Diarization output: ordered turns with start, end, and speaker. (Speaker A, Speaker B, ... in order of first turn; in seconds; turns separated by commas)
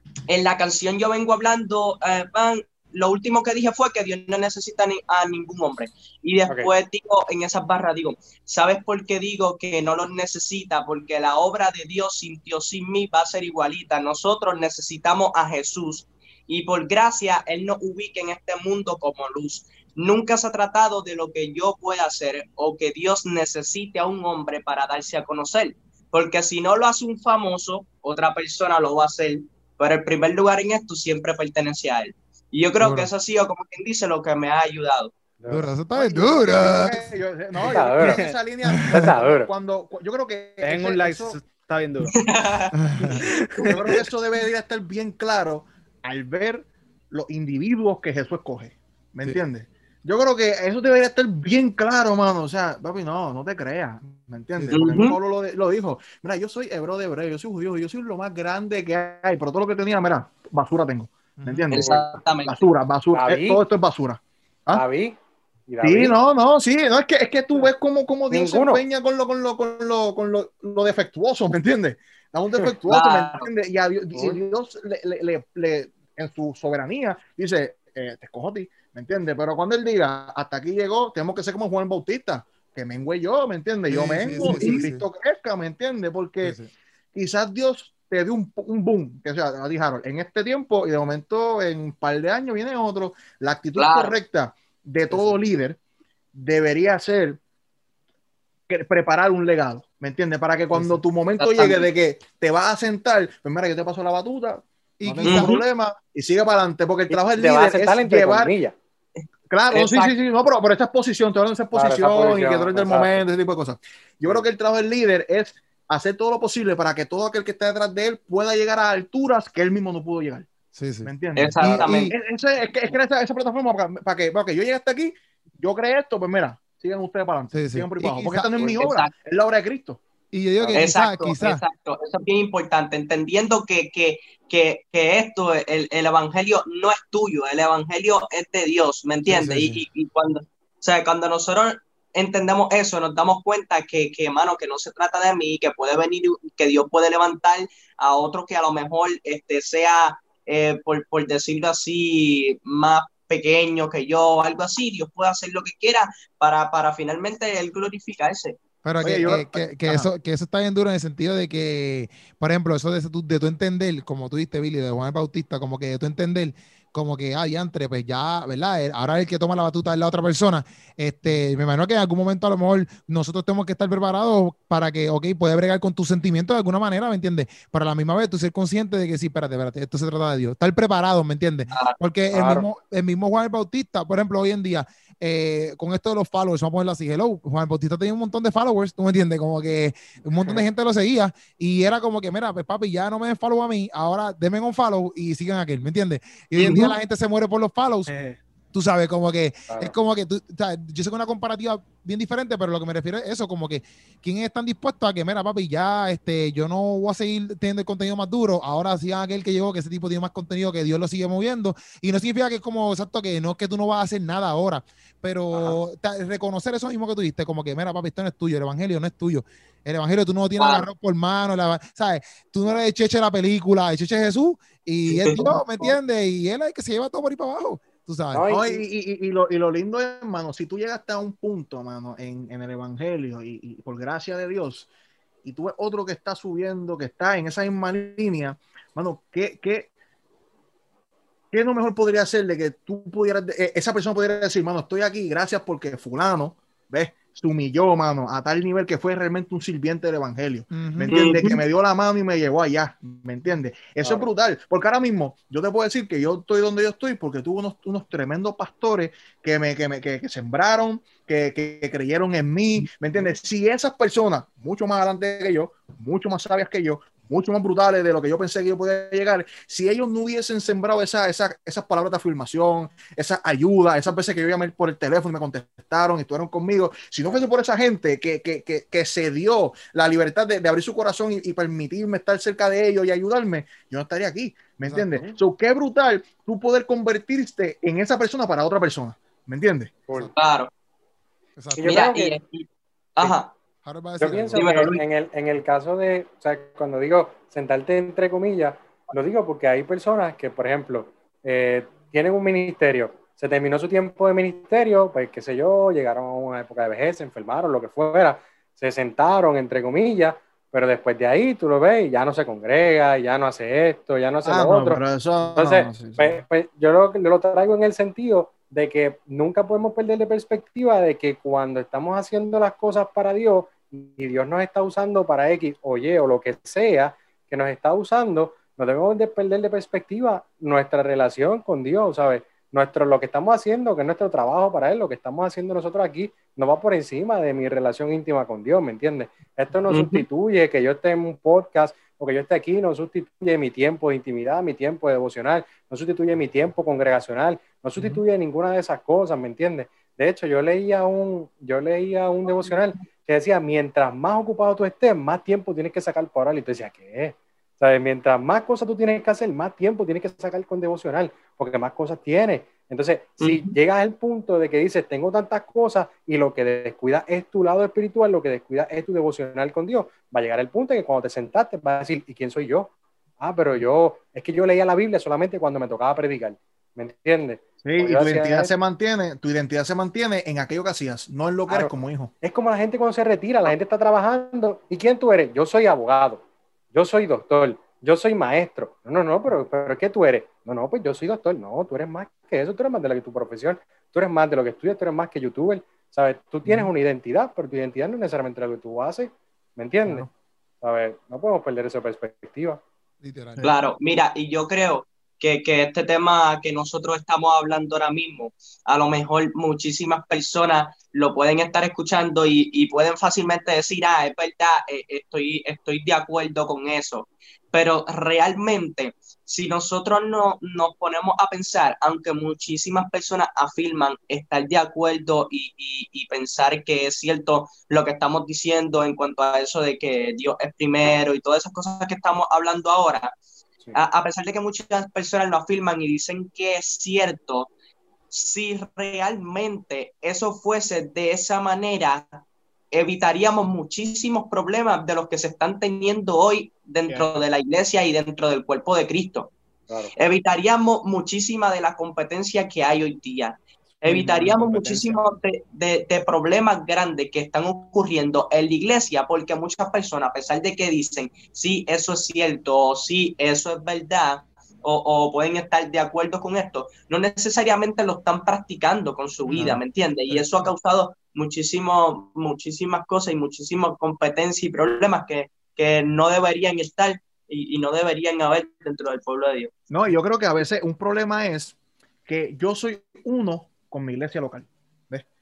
Speaker A: 0.3-35.1, Speaker B: 32.8-33.1, Speaker C: 35.4-35.8, Speaker B: 35.5-37.1, Speaker D: 35.9-41.4, Speaker C: 37.6-38.2, Speaker E: 38.0-38.4, Speaker C: 38.9-39.5, Speaker E: 40.6-42.1, Speaker A: 42.2-42.7, Speaker B: 42.8-43.2, Speaker E: 43.2-44.0, Speaker D: 43.5-64.8, Speaker B: 54.6-54.8, Speaker A: 54.7-55.2, Speaker B: 61.4-62.0, Speaker A: 61.7-62.6, Speaker C: 63.1-63.6, Speaker C: 64.7-66.2, Speaker D: 65.8-86.6, Speaker C: 68.3-68.8, Speaker A: 72.9-73.5, Speaker C: 74.1-74.4, Speaker B: 83.9-85.0, Speaker A: 84.5-84.8, Speaker B: 86.4-86.7, Speaker D: 87.1-95.8, Speaker A: 93.8-94.2, Speaker D: 96.3-97.4, Speaker D: 98.7-108.5, Speaker C: 100.7-101.0, Speaker A: 101.4-101.9, Speaker B: 105.0-105.5, Speaker A: 105.2-105.6, Speaker C: 107.1-108.8, Speaker A: 109.2-110.1, Speaker D: 109.5-120.5, Speaker C: 111.7-113.2, Speaker B: 120.7-122.2, Speaker D: 121.0-130.0, Speaker A: 121.4-122.1, Speaker B: 127.5-128.9, Speaker A: 128.8-129.1, Speaker B: 130.3-131.6, Speaker A: 130.7-158.6, Speaker B: 139.3-139.8, Speaker B: 158.8-198.1, Speaker D: 159.0-160.1, Speaker A: 181.7-182.7, Speaker A: 196.6-196.9, Speaker E: 198.1-198.4, Speaker B: 198.7-228.5, Speaker C: 199.7-199.9, Speaker A: 220.6-220.9, Speaker A: 225.1-225.4, Speaker C: 228.3-228.8, Speaker D: 228.5-234.9, Speaker D: 235.4-239.9, Speaker D: 241.5-290.0, Speaker B: 250.7-251.2, Speaker A: 251.1-251.6, Speaker C: 254.0-254.3, Speaker B: 284.9-285.1, Speaker C: 285.1-285.4, Speaker C: 290.1-290.3, Speaker A: 290.4-290.7, Speaker B: 291.6-291.9, Speaker C: 291.7-292.4, Speaker A: 291.8-293.5, Speaker B: 293.9-294.7, Speaker C: 294.2-378.7, Speaker A: 294.6-295.0, Speaker D: 314.4-316.4, Speaker A: 339.9-340.2, Speaker A: 363.4-363.8, Speaker D: 377.8-382.3, Speaker C: 381.7-386.4, Speaker C: 386.9-400.3, Speaker D: 396.7-396.9, Speaker C: 400.8-402.8, Speaker B: 403.2-403.6, Speaker A: 403.6-433.3, Speaker A: 433.9-437.7, Speaker A: 438.3-449.5, Speaker C: 449.9-450.2, Speaker A: 450.2-479.7, Speaker E: 454.0-455.2, Speaker D: 469.5-469.8, Speaker D: 470.3-470.7, Speaker D: 479.9-481.8, Speaker D: 482.3-485.2